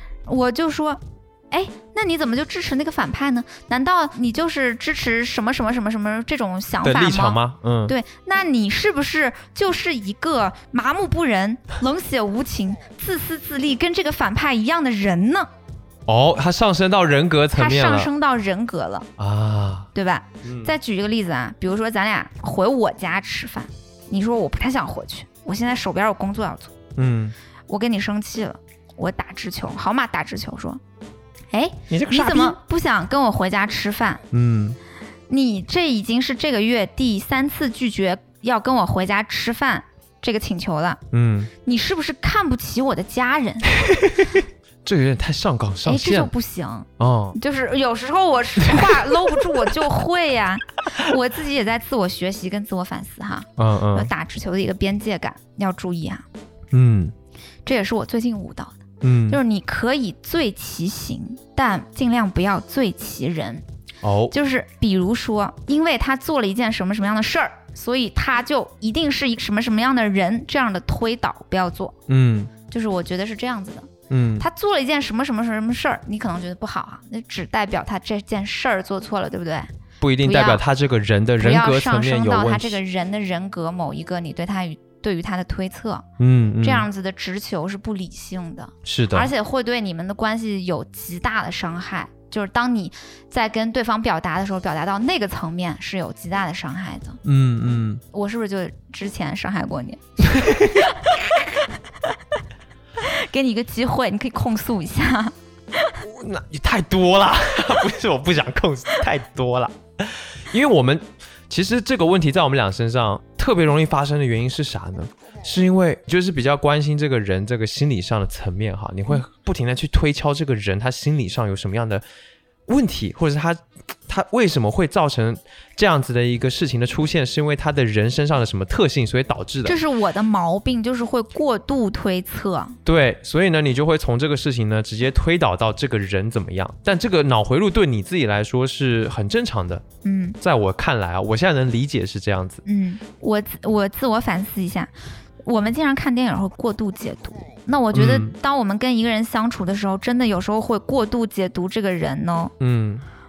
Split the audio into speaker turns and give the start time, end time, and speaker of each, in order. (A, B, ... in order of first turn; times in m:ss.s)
0:00.3-0:15.5 A
0:06.8-0:08.0 B
0:16.1-0:18.1 B
0:17.5-0:19.1 A
0:19.2-0:19.9 B
0:19.9-0:26.7 A
0:20.4-0:20.8 B
0:27.0-0:27.4 B
0:27.7-0:30.8 A
0:31.5-0:34.2 A
0:31.9-0:32.6 B
0:34.3-0:34.8 B
0:35.3-0:41.0 A
0:41.1-0:41.5 B
0:41.6-0:43.7 A
0:43.8-0:46.3 B
0:45.8-0:56.2 A
0:47.0-0:47.4 B
0:48.6-0:49.7 B
0:53.6-0:54.1 B
0:56.7-0:57.1 B
0:57.7-1:03.6 A
0:59.0-0:59.4 B
1:04.0-1:04.3 B
1:04.3-1:12.0 A
1:12.1-1:12.5 B
1:12.7-1:19.7 A
1:14.1-1:14.5 B
1:20.0-1:22.8 B
1:20.2-1:20.6 A
1:21.4-1:26.1 A
1:26.2-1:26.9 B
1:26.6-1:37.2 A
1:28.8-1:29.3 B
1:37.2-1:38.0 B
1:38.1-1:42.2 A
1:40.3-1:41.0 B
1:43.0-1:46.0 A
1:46.0-2:02.0 B
2:02.7-2:09.8 B
2:09.6-2:12.8 A
2:12.9-2:19.8 B
2:20.0-2:20.4 A
2:20.4-2:22.6 B
2:22.6-2:24.9 A
2:25.4-2:32.5 A
2:27.9-2:28.3 B
2:32.6-2:33.0 B